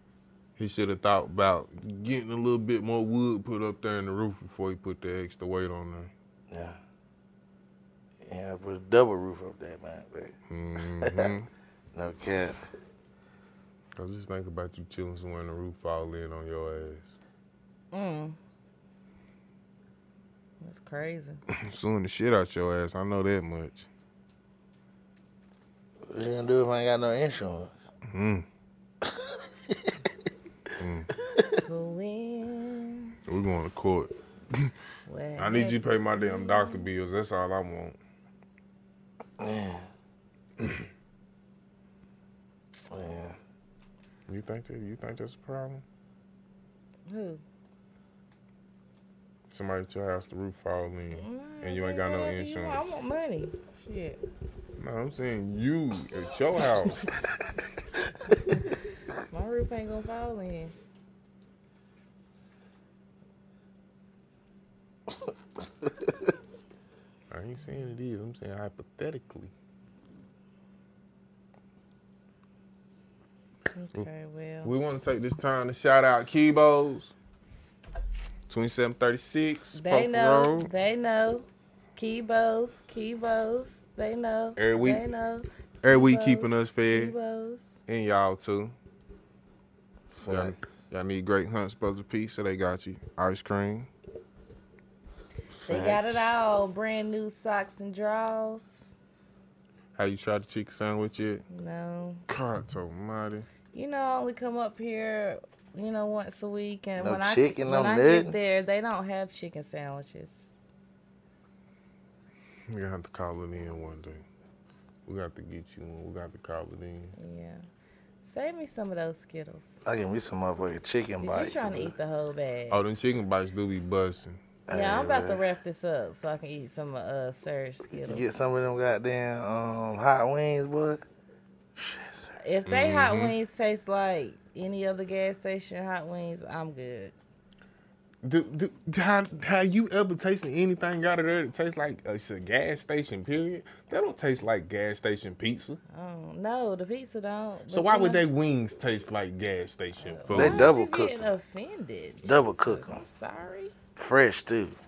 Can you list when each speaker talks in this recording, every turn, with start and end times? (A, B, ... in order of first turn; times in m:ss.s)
0:00.6-0:06.1 A
0:06.5-0:06.8 B
0:08.2-0:10.4 B
0:10.5-0:11.5 A
0:11.0-0:11.3 B
0:11.9-0:12.6 B
0:14.0-0:17.2 A
0:17.9-0:18.4 C
0:20.6-0:21.4 C
0:21.5-0:23.9 A
0:26.1-0:27.7 B
0:28.1-0:28.5 A
0:29.0-0:29.9 B
0:30.8-0:31.1 A
0:31.5-0:33.2 C
0:33.3-0:34.8 A
0:35.1-0:36.9 C
0:35.4-0:38.0 A
0:39.4-0:39.9 B
0:40.6-0:40.9 A
0:42.9-0:43.4 B
0:44.3-0:45.8 A
0:47.1-0:47.4 C
0:49.5-0:52.8 A
0:51.1-0:54.2 C
0:54.8-0:57.1 A
0:58.3-0:58.7 C
0:59.3-1:00.7 C
1:07.3-1:09.5 A
1:13.7-1:14.7 C
1:14.6-1:17.1 A
1:18.5-1:20.7 A
1:19.8-1:27.8 C
1:24.6-1:25.0 A
1:25.8-1:27.2 A
1:27.9-1:28.8 A
1:30.2-1:30.6 B
1:30.3-1:33.9 A
1:35.6-1:36.3 B
1:35.7-1:38.9 C
1:40.0-1:41.4 A
1:41.5-1:42.2 C
1:42.3-1:43.5 A
1:43.7-1:50.4 C
1:47.0-1:48.4 B
1:52.7-1:54.2 A
1:55.1-1:57.1 A
1:57.2-1:57.6 C
1:58.2-1:59.8 C
1:59.8-2:01.9 B
2:01.2-2:02.8 C
2:02.7-2:04.4 A
2:04.7-2:05.4 B
2:04.7-2:08.3 C
2:08.0-2:11.0 B
2:11.8-2:12.4 B
2:12.4-2:17.1 C
2:12.7-2:13.4 A
2:18.2-2:25.8 A
2:25.9-2:28.2 C
2:27.7-2:30.7 A
2:30.0-2:33.7 C
2:30.3-2:31.2 B
2:32.2-2:33.0 B
2:34.0-2:34.8 B